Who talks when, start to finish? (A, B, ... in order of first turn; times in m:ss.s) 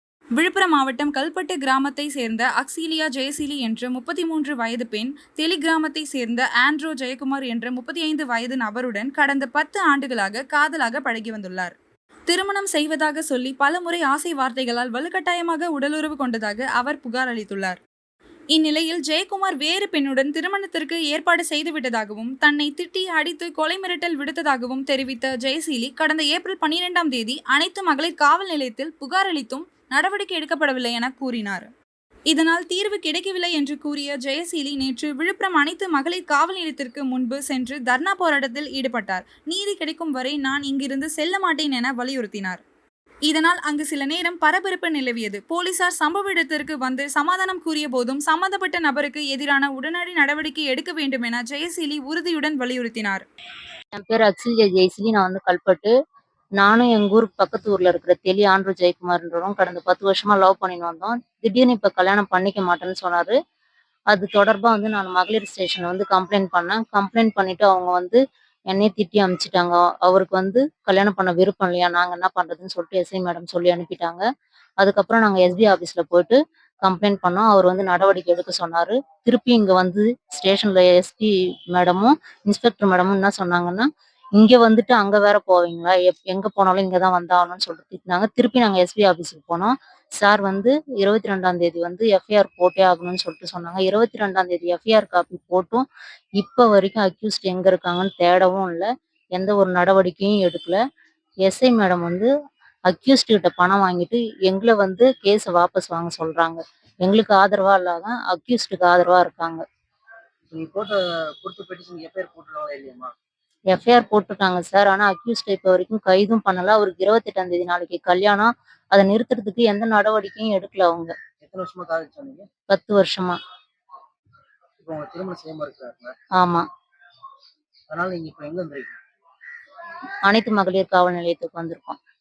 0:00.4-0:11.7 A
0:12.3-0:17.8 A
0:18.5-0:31.7 A
0:32.3-0:42.6 A
0:43.2-0:53.2 A
0:53.9-0:55.9 B
0:56.6-1:03.3 B
1:04.1-1:08.2 B
1:08.7-1:14.2 B
1:14.8-1:35.9 B
1:36.4-1:40.8 B
1:41.4-1:42.3 B
1:42.9-1:49.6 B
1:50.5-1:53.1 C
1:53.7-2:01.1 B
2:01.4-2:02.5 C
2:02.7-2:03.4 B
2:04.8-2:06.1 C
2:06.4-2:06.6 B
2:07.9-2:09.0 C
2:10.3-2:12.0 B